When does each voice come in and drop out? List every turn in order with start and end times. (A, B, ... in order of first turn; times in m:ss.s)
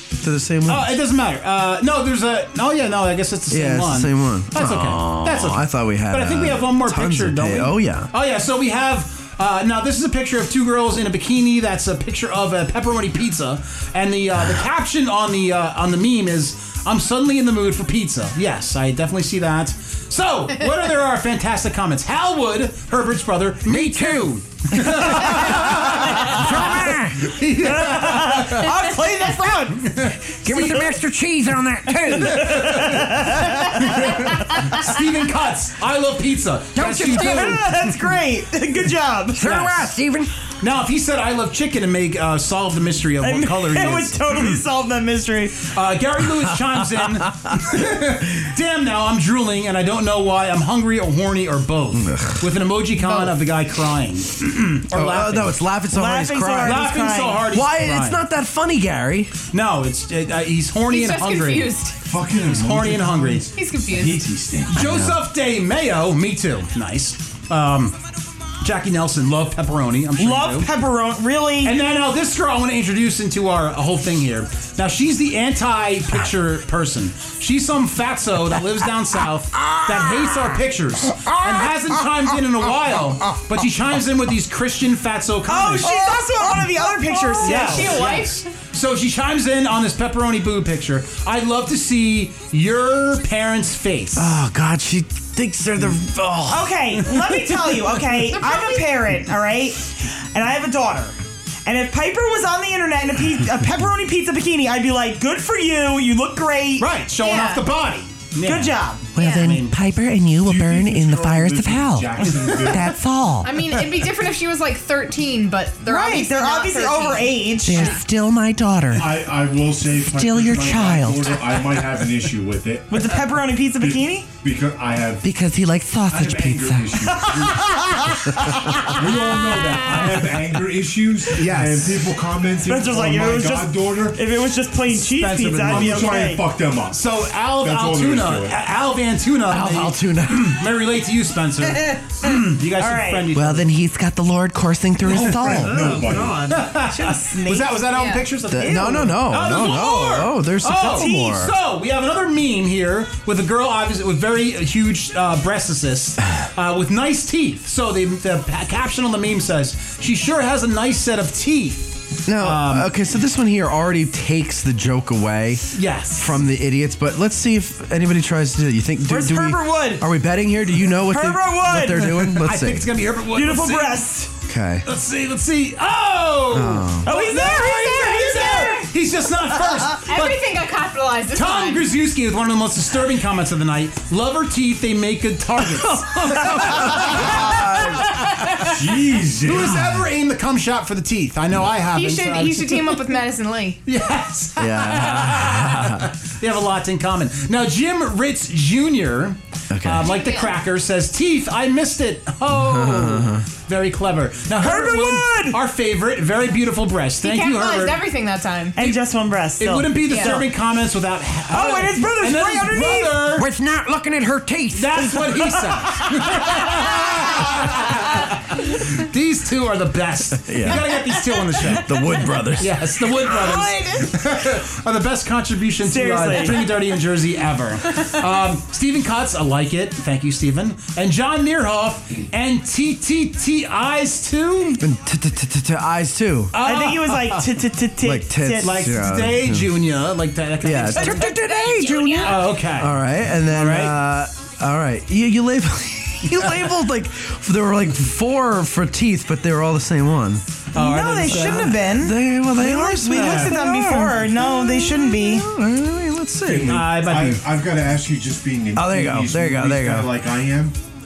0:00.2-0:00.9 A
0:00.7-0:28.8 B
0:03.5-0:08.1 A
0:26.3-0:27.1 C
0:26.7-0:27.0 A
0:27.5-0:30.0 D
0:29.8-0:31.0 B
0:30.5-0:32.3 C
0:32.1-0:37.6 B
0:32.2-0:34.9 D
0:36.8-0:37.5 C
0:37.1-0:39.5 D
0:37.3-0:37.5 A
0:39.4-0:40.3 C
0:39.4-0:39.9 B
0:40.6-0:44.6 B
0:43.2-0:45.7 D
0:45.7-0:55.7 B
0:52.0-0:52.4 A
0:53.1-0:53.4 E
0:54.9-0:56.9 A
0:55.9-0:57.5 D
0:56.6-0:58.2 B
0:57.5-0:59.3 A
0:59.5-1:01.8 B
1:00.9-1:02.0 E
1:02.0-1:04.9 F
1:02.3-1:03.5 B
1:03.5-1:04.3 E
1:04.7-1:08.0 B
1:04.7-1:05.2 A
1:08.6-1:10.7 B
1:10.2-1:11.8 D
1:11.6-1:26.0 B
1:25.5-1:28.1 D
1:25.9-1:26.3 E
1:27.0-1:28.4 E
1:27.4-1:34.3 B
1:34.2-1:36.7 A
1:36.5-1:46.9 D
1:37.3-1:37.8 B
1:38.4-1:38.9 E
1:46.8-1:49.7 B
1:47.2-1:47.6 E
1:48.4-1:49.1 D
1:49.2-1:53.5 A
1:49.2-1:49.6 E
1:50.4-1:53.0 F
1:52.2-1:52.7 D
1:53.4-1:58.0 E
1:55.9-1:58.0 D
1:57.7-1:59.2 A
1:58.9-2:03.0 F
2:00.0-2:01.3 A
2:02.9-2:04.3 D
2:03.8-2:05.3 F
2:05.2-2:06.9 A
2:06.1-2:08.0 F
2:06.3-2:06.6 C
2:07.1-2:08.5 D
2:08.8-2:14.3 F
2:11.3-2:12.0 B
2:12.6-2:16.5 D
2:14.9-2:16.3 B
2:15.6-2:18.6 F
2:16.9-2:23.7 B
2:19.5-2:20.5 A
2:22.7-2:23.3 D
2:23.3-2:26.4 A
2:25.0-2:26.6 F
2:26.4-2:42.9 B
2:26.6-2:27.8 D
2:27.9-2:28.2 E
2:28.5-2:31.5 A
2:28.6-2:29.4 D
2:30.7-2:31.5 D
2:42.3-2:52.9 A
2:45.7-2:46.3 B
2:49.1-2:50.1 D
2:50.9-2:52.2 D
2:52.0-2:54.1 B
2:53.3-2:54.4 D
2:54.4-2:54.9 A
2:54.8-3:00.5 B
2:56.5-2:57.1 A
2:57.0-2:58.9 D
2:57.3-2:58.8 E
3:00.1-3:01.9 E
3:01.3-3:08.6 B
3:05.9-3:08.2 A
3:08.1-3:08.4 E
3:08.6-3:10.0 F
3:09.4-3:13.1 B
3:11.9-3:13.8 E
3:13.9-3:28.0 B
3:14.6-3:16.1 A
3:19.7-3:20.1 A
3:20.1-3:20.5 E
3:22.5-3:23.4 A
3:24.6-3:25.6 D
3:27.2-3:28.8 E
3:28.8-3:30.5 D
3:28.8-3:29.0 B
3:29.6-3:33.5 B
3:30.1-3:30.4 E
3:31.5-3:33.3 D
3:33.4-3:34.8 C
3:33.7-3:34.8 A
3:34.7-3:54.8 B
3:40.5-3:40.9 A
3:41.7-3:42.8 A
3:43.2-3:44.1 E
3:45.8-3:46.7 D
3:54.8-3:56.5 A
3:56.5-3:57.5 B
3:56.6-3:58.8 D
3:58.0-3:59.7 A
3:58.6-4:01.3 B
4:00.6-4:10.4 A
4:01.2-4:02.4 E
4:01.4-4:02.1 C
4:02.2-4:04.0 B
4:06.4-4:06.7 B
4:10.7-4:11.8 B
4:10.7-4:15.5 D
4:11.3-4:16.9 A
4:13.1-4:13.6 B
4:16.4-4:20.8 F
4:16.7-4:17.4 B
4:18.8-4:20.1 A